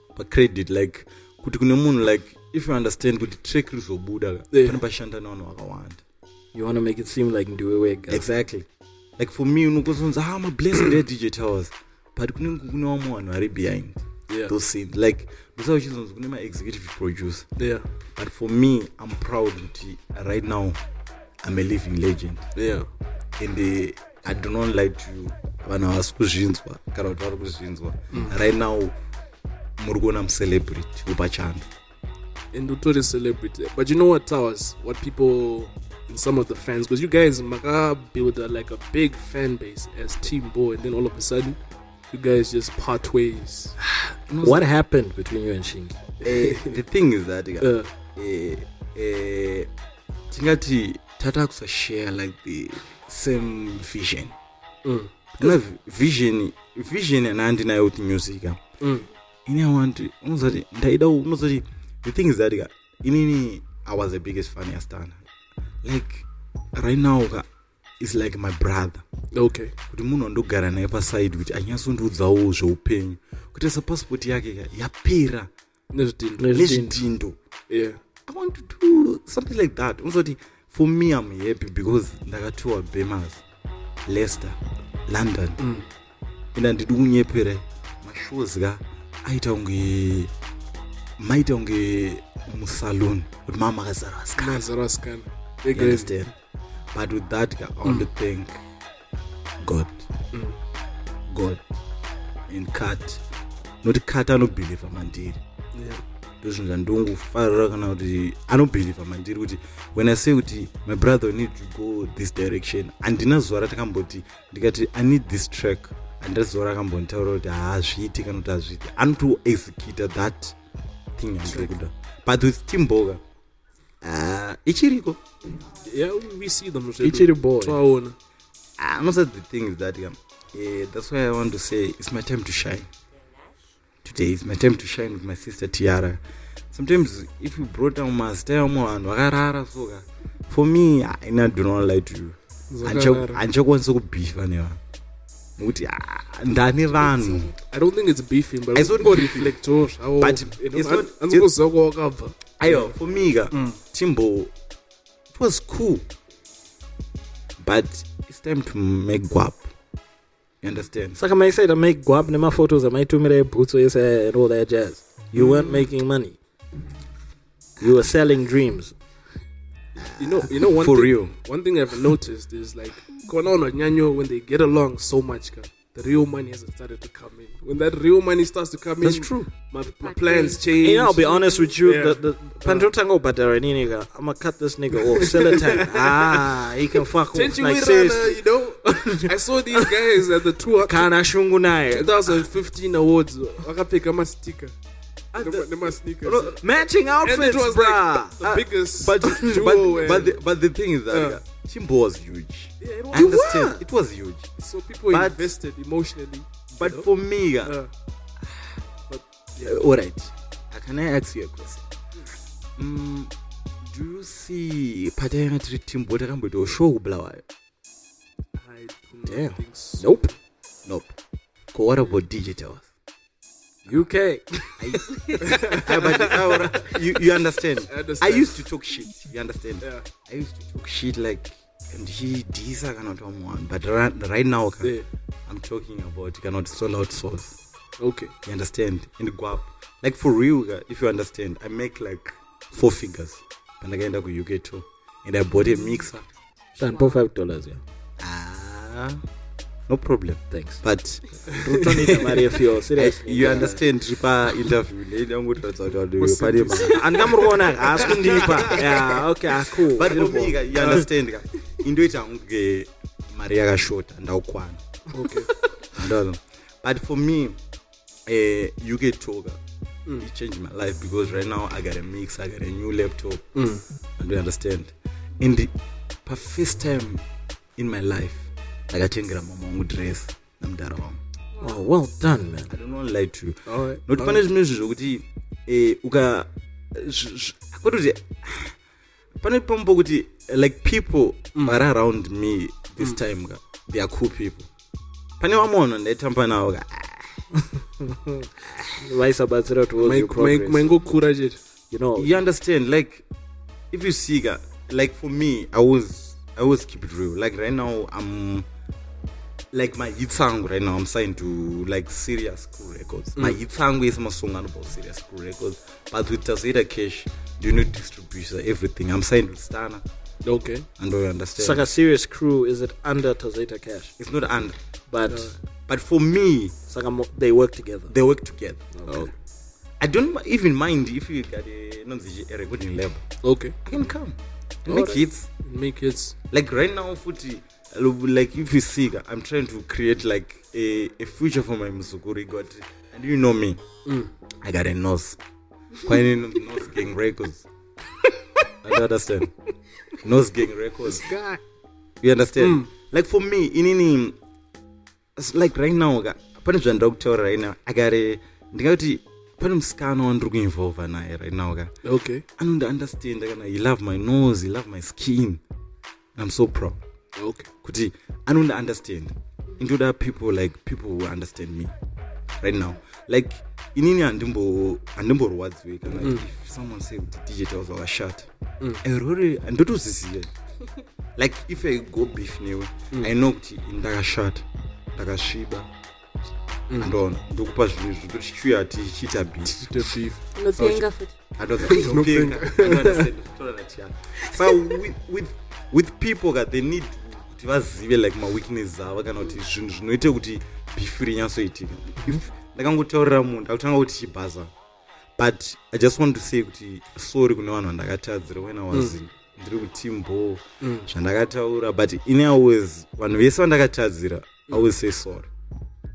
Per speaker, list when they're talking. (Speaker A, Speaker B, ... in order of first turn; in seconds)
Speaker A: 0.1-6.0, 8.1-8.7, 9.2-17.5, 18.1-20.8, 21.4-22.4, 23.4-28.9, 29.8-31.7, 43.9-44.6, 46.2-49.7, 50.3-54.3, 55.4-58.6, 59.5-65.2, 65.8-67.5, 68.0-69.0, 69.9-75.5, 76.5-77.4, 78.3-83.4, 84.0-85.6, 86.5-90.3, 91.2-94.7, 95.7-96.3, 96.9-98.6, 99.6-100.0, 101.3-101.6, 102.5-103.2, 103.8-105.4, 106.4-120.5, 121.2-123.2, 124.0-125.2, 128.8-132.9, 134.0-136.2, 136.7-144.8, 145.6-147.5, 148.7-149.5, 150.2-151.5, 152.6-154.5, 155.3-156.1, 157.6-159.7, 160.6-161.2, 165.3-165.8, 170.0-171.3, 179.0-179.5, 195.3-196.6, 198.4-204.5, 205.1-205.5, 206.7-207.8, 208.4-208.8, 209.6-211.8, 212.8-213.3, 213.8-217.4, 220.8-221.1, 221.7-222.9, 224.8-234.9, 235.5-237.6, 238.4-246.2, 248.2-249.2, 249.9-251.3, 252.0-257.0, 257.9-259.0, 259.8-264.8, 265.9-267.6, 268.3-269.6, 270.2-273.5, 274.2-275.7, 276.2-277.2, 277.8-281.2, 282.7-288.7, 289.4-294.7, 295.4-297.4, 298.6-299.0, 302.1-303.2, 303.9-308.7, 309.7-320.0, 321.0-321.9, 324.2-324.8, 325.8-326.8, 328.1-329.0, 330.0-333.3, 333.8-335.5, 336.5-343.8, 344.6-345.4, 346.0-347.7, 348.8-349.5, 350.2-351.2, 352.2-354.4, 355.4-361.9, 362.6-365.6, 366.4-367.0, 367.8-371.9, 372.6-378.5, 379.0-380.5, 381.4-385.9, 387.0-390.0, 391.6-404.7, 405.4-415.5
Speaker B: 4.5-4.8, 14.3-14.5, 17.6-17.9, 22.6-22.9, 32.5-41.6, 42.1-43.7, 46.3-46.7, 47.6-47.9, 54.8-55.5, 58.8-59.1, 69.3-69.7, 75.9-76.6, 77.7-78.0, 85.6-85.8, 94.4-96.1, 105.7-106.0, 121.5-121.7, 125.9-128.2, 142.7-143.4, 147.6-152.9, 153.5-153.8, 170.2-182.9, 185.1-186.6, 187.3-191.1, 191.9-194.7, 195.4-196.6, 197.2-200.4, 201.1-201.4, 202.8-203.6, 204.6-207.1, 207.6-207.9, 209.1-209.8, 218.5-220.3, 225.4-226.9, 227.9-228.6, 238.0-238.3, 256.2-257.0, 258.0-258.6, 265.1-265.5, 273.6-273.8, 283.6-284.4, 291.5-291.8, 300.0-301.6, 320.4-320.9, 325.3-325.6, 333.4-333.8, 334.9-336.4, 351.2-351.6, 352.6-352.9, 362.0-362.4, 367.4-367.7, 376.1-376.4, 389.7-391.0, 391.8-393.3, 410.8-411.1
Speaker C: 6.5-8.3, 44.4-46.1, 76.4-77.0, 127.0-127.8, 161.2-166.4, 167.8-168.9, 180.8-190.1, 190.8-192.5, 196.6-198.4, 203.1-203.8, 219.2-220.3, 223.8-225.3, 246.8-247.8, 250.5-250.8, 251.4-253.8, 256.8-261.0, 281.6-282.7, 298.0-298.5, 299.0-301.0, 301.9-302.3, 321.6-324.1, 325.1-325.5, 326.9-328.1, 328.9-329.3
Speaker D: 147.0-147.6, 180.0-181.8, 246.8-247.2, 281.5-281.8, 390.5-391.4